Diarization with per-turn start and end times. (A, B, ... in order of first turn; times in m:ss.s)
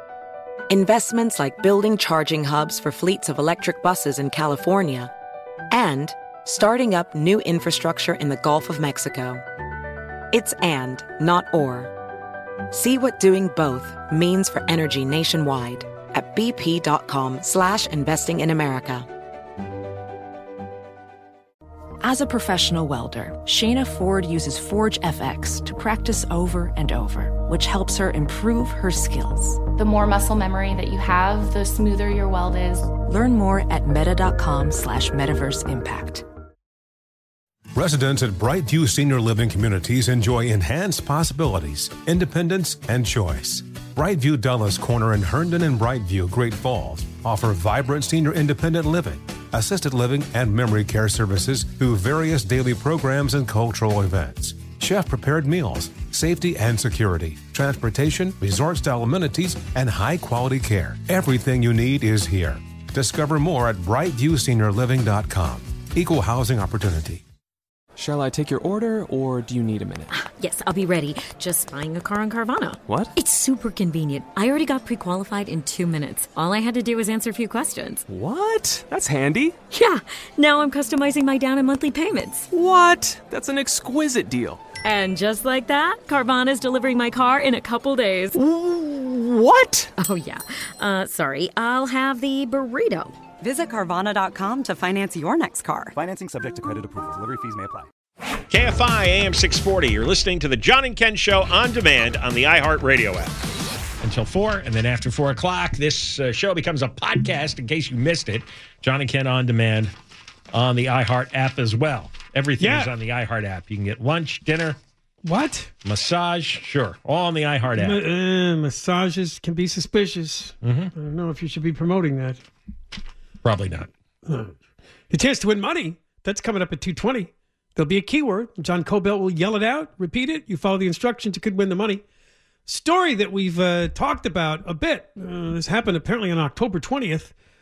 0:00.7-0:05.1 A
0:05.7-0:09.4 A
0:10.3-0:11.9 A
0:12.7-0:19.1 A
0:22.0-0:29.7 B
0:29.8-0:32.9 C
0:32.9-0:36.2 B
0:37.8-1:07.2 D
1:08.0-1:10.1 E
1:10.1-1:18.0 F
1:12.8-1:13.1 E
1:18.1-1:19.7 E
1:19.7-1:22.5 F
1:22.5-1:24.7 E
1:24.7-1:28.4 F
1:28.3-1:29.9 E
1:30.0-1:33.1 F
1:33.4-1:35.9 G
1:35.9-1:37.9 H
1:38.5-1:43.3 I
1:44.0-1:49.9 I
1:50.5-1:54.8 I
1:52.6-1:52.9 J
1:55.2-1:55.7 J
1:55.8-1:58.0 I
1:57.7-2:02.4 J
2:00.6-2:00.9 I
2:03.4-2:03.9 I
2:04.3-2:04.6 J
2:05.1-2:12.0 J
2:12.7-2:17.3 J